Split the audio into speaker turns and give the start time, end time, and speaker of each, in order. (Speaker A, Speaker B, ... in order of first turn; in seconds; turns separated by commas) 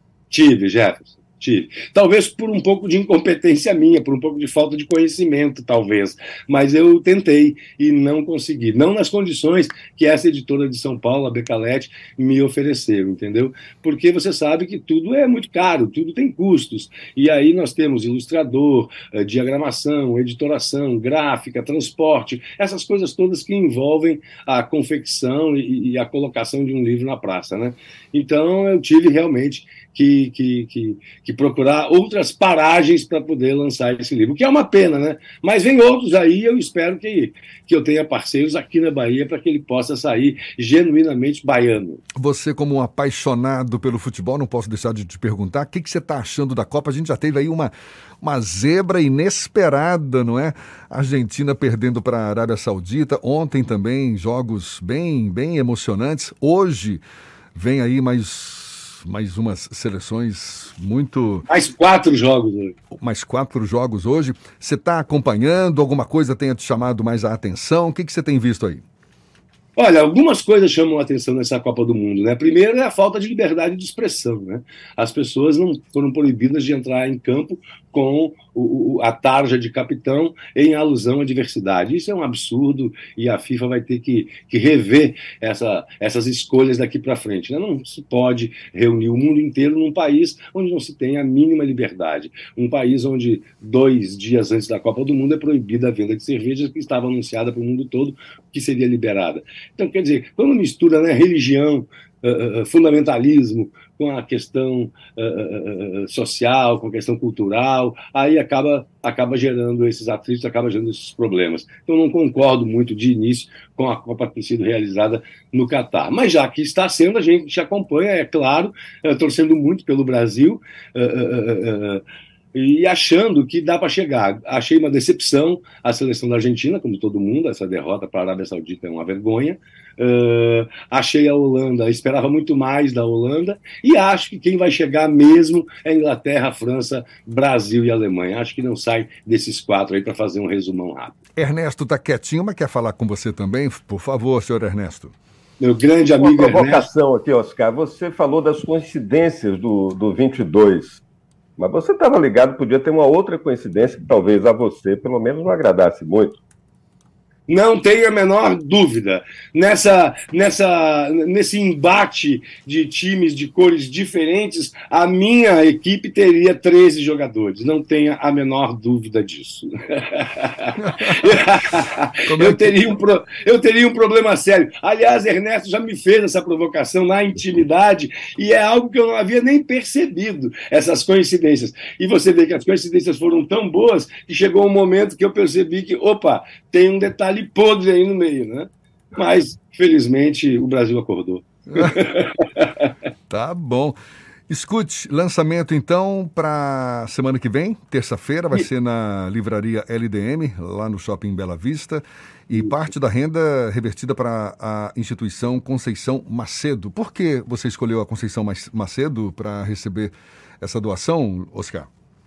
Speaker A: 0.3-42.0, Speaker B: 42.2-57.0, Speaker B: 57.5-61.5, Speaker A: 61.5-62.7, Speaker B: 63.0-68.8, Speaker A: 69.8-122.0, Speaker A: 122.5-141.2, Speaker B: 141.4-145.1, Speaker A: 145.6-146.9, Speaker C: 146.2-151.0, Speaker C: 151.6-156.4, Speaker A: 157.5-192.7, Speaker B: 170.8-171.2, Speaker B: 172.2-172.8, Speaker B: 193.3-194.0, Speaker B: 194.5-211.9